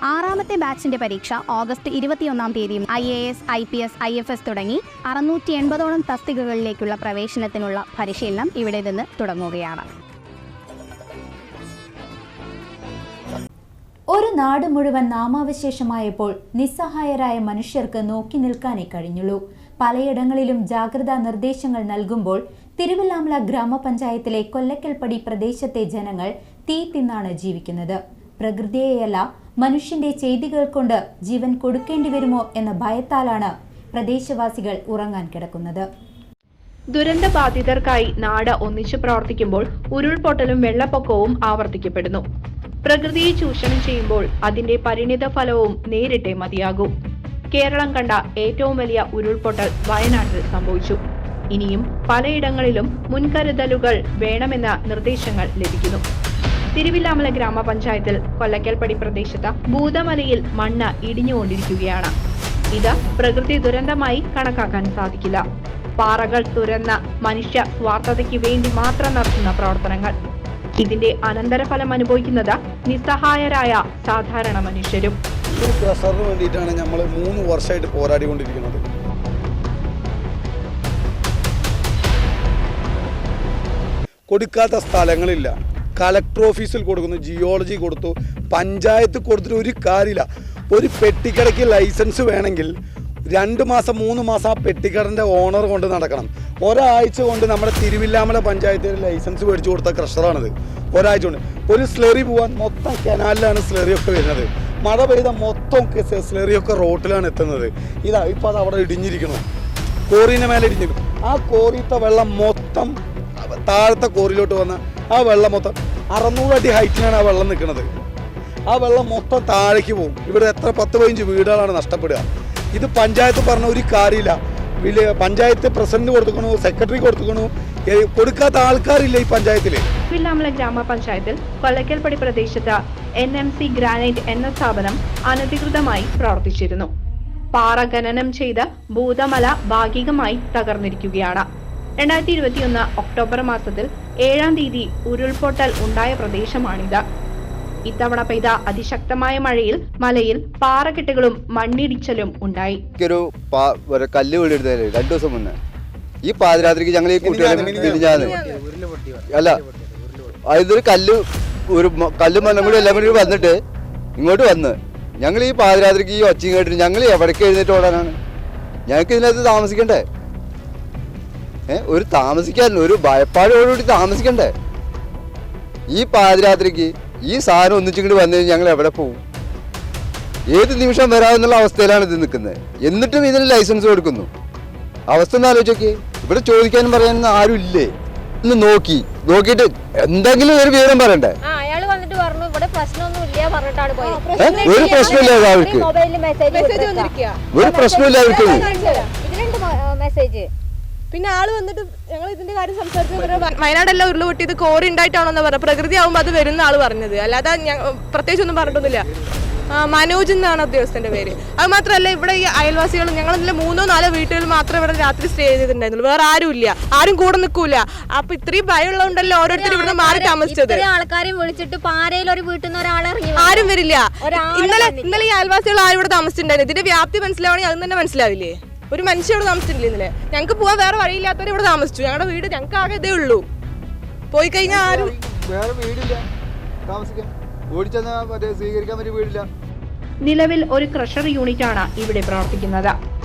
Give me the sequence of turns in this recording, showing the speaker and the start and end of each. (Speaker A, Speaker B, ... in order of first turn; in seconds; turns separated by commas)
Speaker A: 0.6-1.0, Speaker A: 2.0-3.3, Speaker A: 4.0-9.8, Speaker B: 14.1-35.9, Speaker C: 37.0-42.2, Speaker C: 42.8-46.9, Speaker C: 47.5-51.0, Speaker C: 51.5-56.0, Speaker C: 56.8-62.1, Speaker C: 62.7-65.4, Speaker C: 66.0-70.2, Speaker C: 70.8-75.2, Speaker D: 75.5-78.8, Speaker D: 84.3-92.7, Speaker D: 93.3-109.4, Speaker D: 110.1-117.9, Speaker D: 118.7-129.8, Speaker C: 130.1-136.9, Speaker C: 137.5-141.5, Speaker C: 142.0-147.0, Speaker C: 147.9-152.8, Speaker E: 153.0-155.6, Speaker E: 156.2-158.4, Speaker D: 157.2-158.3, Speaker F: 157.9-158.6, Speaker E: 159.3-159.6, Speaker E: 160.5-163.6, Speaker F: 162.4-163.5, Speaker E: 164.2-168.2, Speaker E: 168.9-170.1, Speaker E: 171.7-174.5, Speaker E: 175.9-179.2, Speaker E: 180.5-184.3, Speaker E: 185.1-191.4, Speaker G: 191.4-200.5, Speaker F: 194.0-195.4, Speaker E: 194.4-195.9, Speaker F: 196.5-197.5, Speaker E: 197.5-198.7, Speaker F: 198.2-199.1, Speaker F: 201.1-209.1, Speaker F: 209.7-220.9, Speaker G: 219.5-225.2, Speaker F: 223.4-233.5, Speaker F: 234.3-235.1, Speaker E: 234.7-236.2, Speaker E: 236.9-239.4, Speaker C: 240.2-242.9